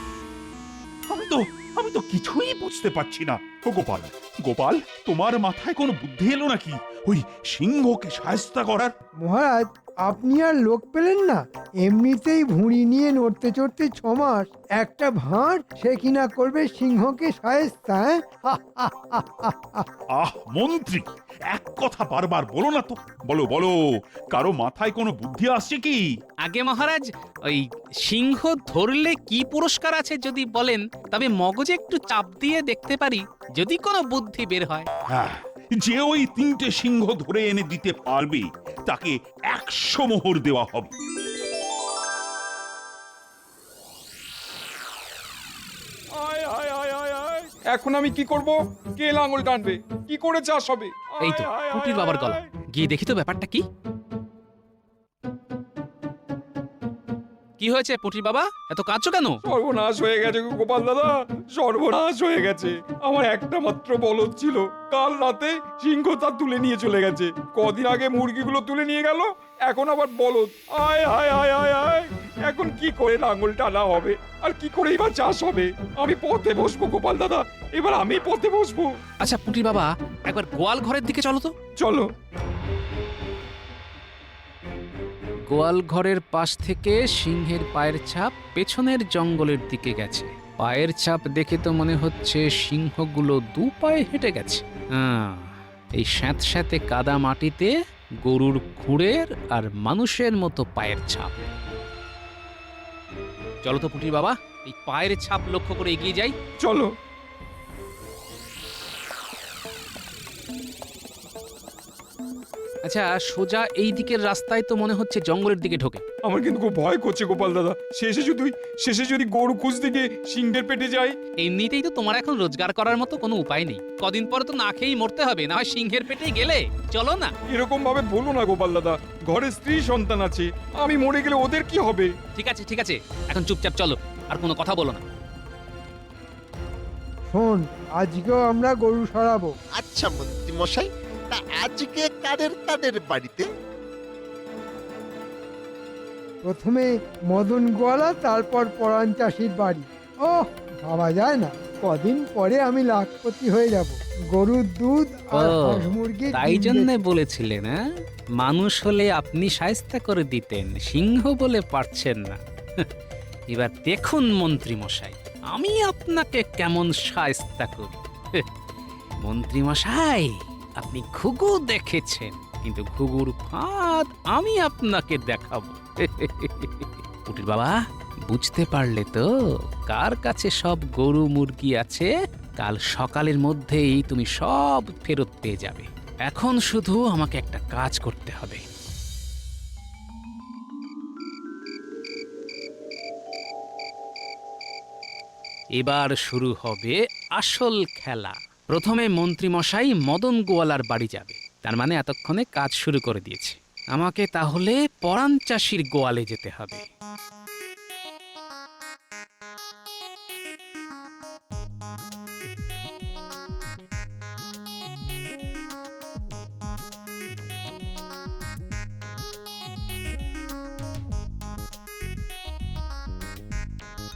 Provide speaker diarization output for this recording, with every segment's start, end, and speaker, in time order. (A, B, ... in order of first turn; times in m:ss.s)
0:01.1-0:08.9 A
0:09.2-0:19.8 B
0:20.1-0:23.8 A
0:24.3-0:26.0 A
0:26.4-0:34.9 C
0:35.1-0:40.9 A
0:46.2-0:52.4 D
0:51.2-0:53.6 C
0:57.6-0:59.4 C
0:59.5-1:18.9 D
1:19.2-1:21.5 C
1:21.8-1:22.1 D
1:25.5-1:37.7 C
1:38.2-1:41.5 C
1:43.6-1:46.4 C
1:46.6-1:46.9 D
1:52.8-1:56.0 C
1:56.2-2:01.2 D
2:01.4-2:07.3 C
2:07.5-2:12.1 D
2:12.4-2:15.0 C
2:17.3-2:19.5 B
2:19.8-2:23.5 E
2:26.4-2:36.9 B
2:35.4-2:35.8 C
2:36.3-2:37.8 C
2:38.4-2:42.9 C
2:43.5-2:48.4 C
2:49.2-2:57.8 C
2:58.3-2:59.2 C
2:59.9-3:08.6 C
3:15.8-3:26.8 C